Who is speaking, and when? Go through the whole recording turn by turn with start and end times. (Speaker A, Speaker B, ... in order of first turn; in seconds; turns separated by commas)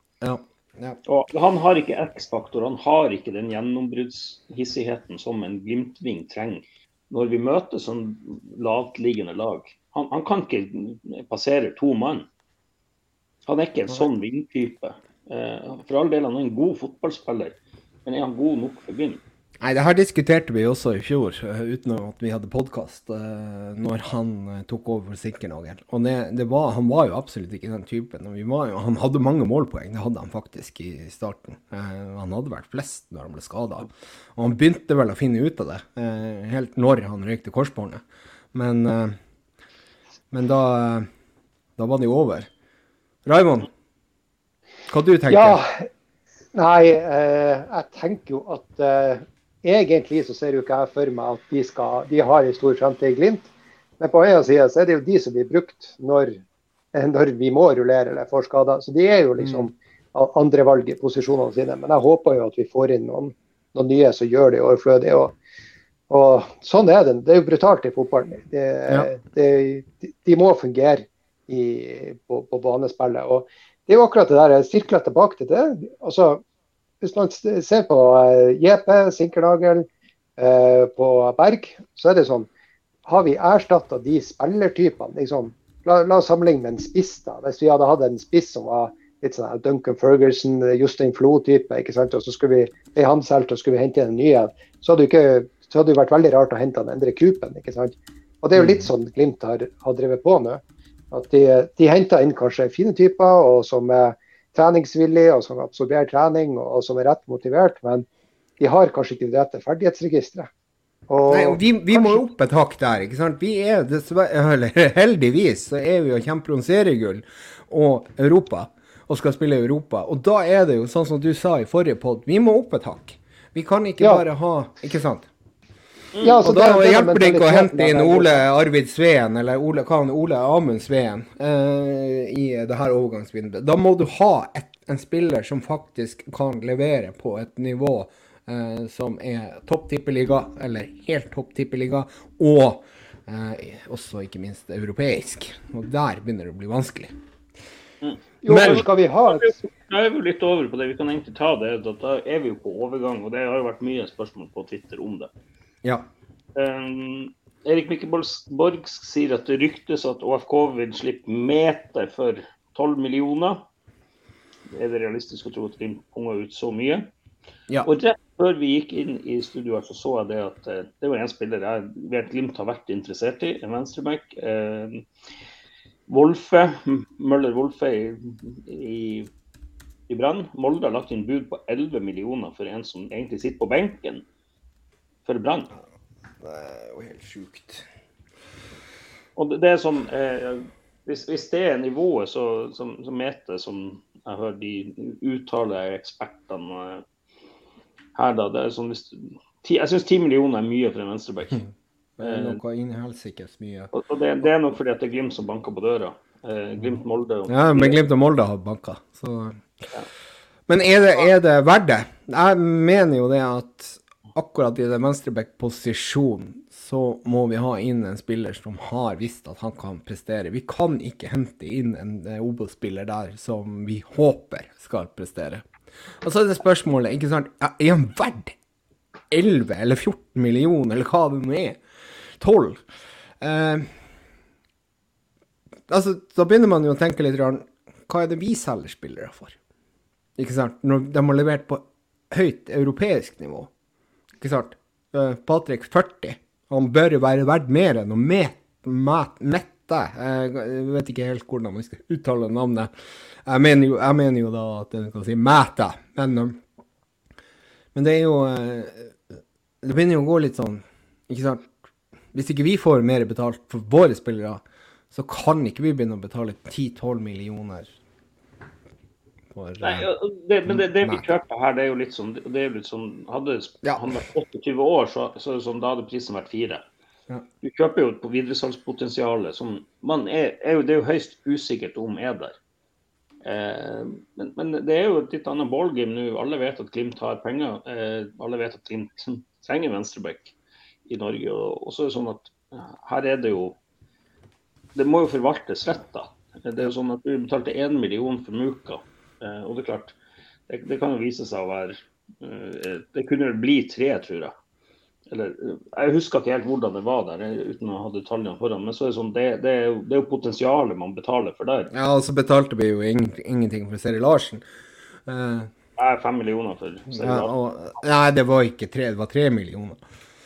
Speaker A: 0.2-1.0, Speaker B: 1.1-12.2, Speaker B: 13.4-19.2, Speaker A: 19.6-38.0, Speaker A: 38.5-39.2, Speaker A: 40.3-41.1, Speaker A: 41.8-42.5, Speaker A: 43.2-43.7, Speaker A: 44.9-45.6, Speaker C: 45.3-45.9, Speaker C: 46.5-56.4, Speaker C: 56.9-65.3, Speaker A: 59.4-59.7, Speaker C: 66.1-76.4, Speaker C: 77.0-82.5, Speaker C: 83.0-108.0, Speaker A: 98.5-98.9, Speaker C: 108.6-110.5, Speaker C: 111.1-112.2, Speaker A: 111.3-125.3, Speaker C: 124.0-124.2, Speaker B: 126.1-126.4, Speaker C: 126.2-128.4, Speaker A: 126.4-147.1, Speaker B: 148.0-155.3, Speaker C: 148.4-149.5, Speaker A: 148.5-148.8, Speaker B: 156.6-163.6, Speaker B: 164.7-167.1, Speaker B: 167.8-175.1, Speaker B: 176.1-179.3, Speaker B: 180.1-184.2, Speaker B: 185.2-185.7, Speaker A: 186.4-187.8, Speaker B: 189.3-197.0, Speaker B: 198.1-201.6, Speaker A: 202.2-203.9, Speaker B: 202.2-202.6, Speaker B: 203.9-208.0, Speaker A: 207.5-209.6, Speaker A: 210.7-225.6, Speaker A: 226.2-228.6, Speaker A: 229.3-231.8, Speaker A: 232.4-232.8, Speaker A: 233.4-233.9, Speaker A: 235.9-239.6, Speaker A: 240.4-243.7, Speaker A: 244.4-252.9, Speaker A: 253.4-256.6, Speaker A: 257.9-259.2, Speaker A: 259.8-261.7, Speaker A: 262.3-267.9, Speaker A: 269.5-270.1, Speaker B: 269.8-276.8, Speaker A: 270.7-271.3, Speaker B: 277.6-282.5, Speaker B: 283.4-290.5, Speaker B: 291.1-293.8, Speaker B: 294.9-300.1, Speaker B: 300.7-304.5, Speaker B: 305.3-311.9, Speaker A: 311.9-314.6, Speaker A: 315.2-315.7, Speaker B: 316.0-317.5, Speaker A: 317.1-320.0